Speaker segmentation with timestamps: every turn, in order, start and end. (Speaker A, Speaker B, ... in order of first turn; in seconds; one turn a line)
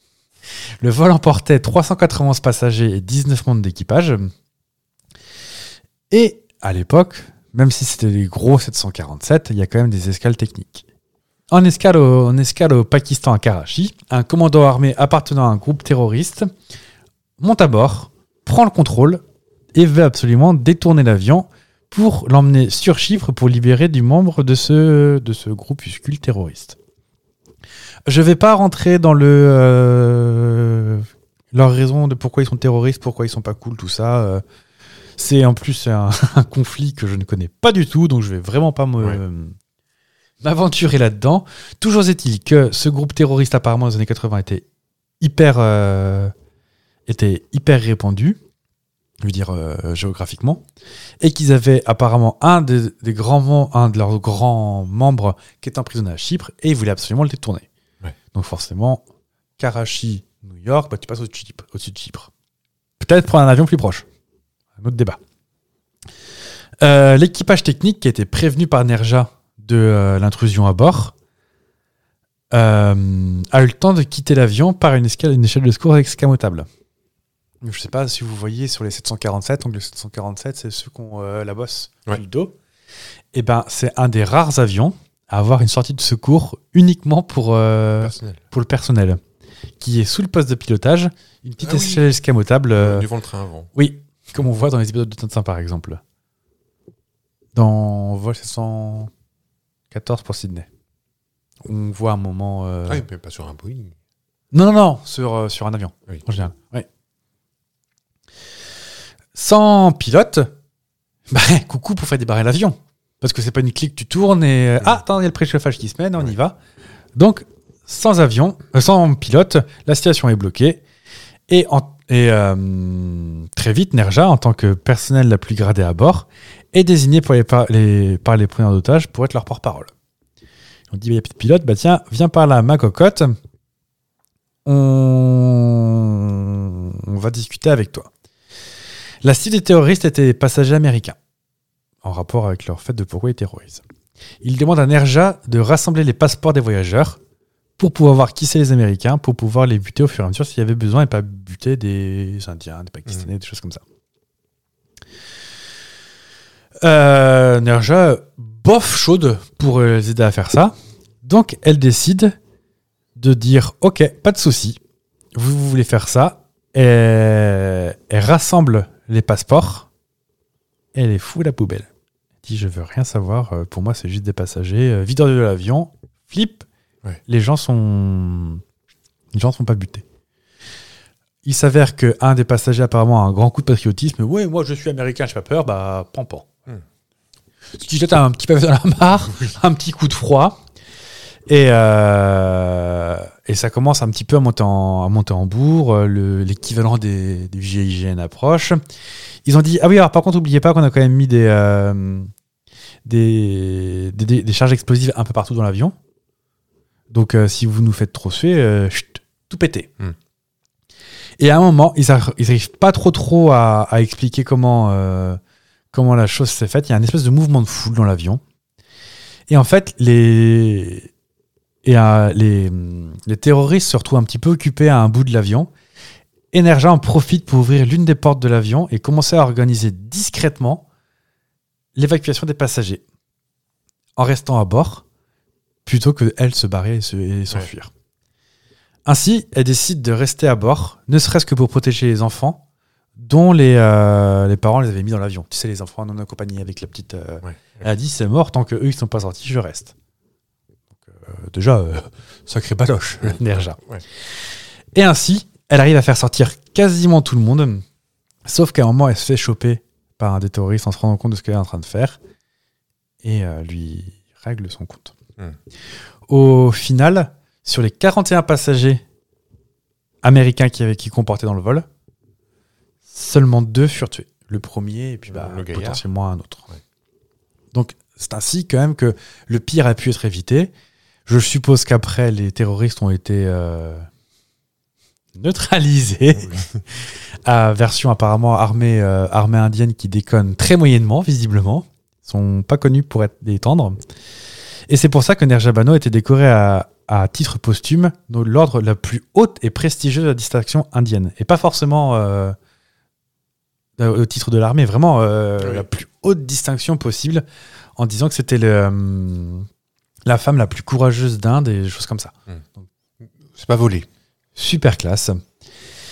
Speaker A: 0.8-4.3
Speaker A: 6.1-10.8
Speaker A: 11.5-16.5
Speaker A: 17.4-19.2
Speaker A: 19.7-26.8
Speaker A: 28.1-34.4
Speaker A: 35.2-39.5
Speaker A: 40.4-44.6
Speaker A: 45.2-46.3
Speaker A: 47.1-48.4
Speaker A: 49.2-50.6
Speaker A: 51.2-57.7
Speaker A: 58.3-59.0
Speaker A: 59.6-62.3
Speaker A: 63.0-64.0
Speaker A: 64.8-65.2
Speaker A: 66.8-71.1
Speaker A: 72.5-76.7
Speaker A: 77.6-82.5
Speaker A: 83.3-89.2
Speaker B: 88.0-88.4
Speaker A: 89.8-93.0
Speaker B: 91.6-92.0
Speaker B: 92.7-93.7
Speaker A: 93.7-96.0
Speaker A: 97.5-99.1
Speaker A: 99.9-100.7
Speaker A: 101.6-103.0
Speaker B: 102.9-104.0
Speaker A: 104.5-106.8
Speaker A: 109.3-110.5
Speaker A: 111.3-116.6
Speaker A: 117.2-120.8
Speaker A: 121.5-129.9
Speaker A: 130.9-133.3
Speaker A: 134.6-138.1
Speaker A: 139.2-141.2
Speaker A: 142.0-143.8
Speaker A: 144.4-147.2
Speaker A: 147.8-153.8
Speaker A: 156.8-162.3
Speaker A: 163.2-164.8
Speaker A: 165.3-169.9
Speaker A: 170.9-171.9
Speaker A: 172.4-176.7
Speaker A: 177.2-178.6
Speaker A: 179.3-180.0
Speaker A: 181.4-186.5
Speaker A: 187.7-190.6
Speaker A: 191.5-198.8
Speaker A: 199.4-202.3
Speaker A: 203.0-205.9
Speaker A: 207.1-209.9
Speaker A: 211.4-215.4
Speaker A: 215.9-218.4
Speaker A: 219.5-221.1
Speaker A: 221.8-225.7
Speaker A: 226.5-230.8
Speaker A: 231.9-233.0
Speaker A: 234.2-235.0
Speaker A: 235.8-237.9
Speaker A: 239.1-242.6
Speaker A: 243.2-249.9
Speaker B: 247.4-247.8
Speaker A: 251.0-253.8
Speaker B: 253.2-254.0
Speaker A: 254.9-257.8
Speaker A: 258.4-262.2
Speaker A: 263.2-265.1
Speaker A: 266.3-269.0
Speaker A: 270.2-271.9
Speaker A: 273.1-276.7
Speaker B: 275.3-276.0
Speaker A: 277.7-280.7
Speaker A: 281.2-284.1
Speaker A: 285.3-294.0
Speaker A: 294.9-302.6
Speaker A: 304.0-307.4
Speaker B: 305.6-305.9
Speaker A: 308.0-309.7
Speaker A: 310.2-312.9
Speaker B: 313.4-314.1
Speaker A: 314.6-315.4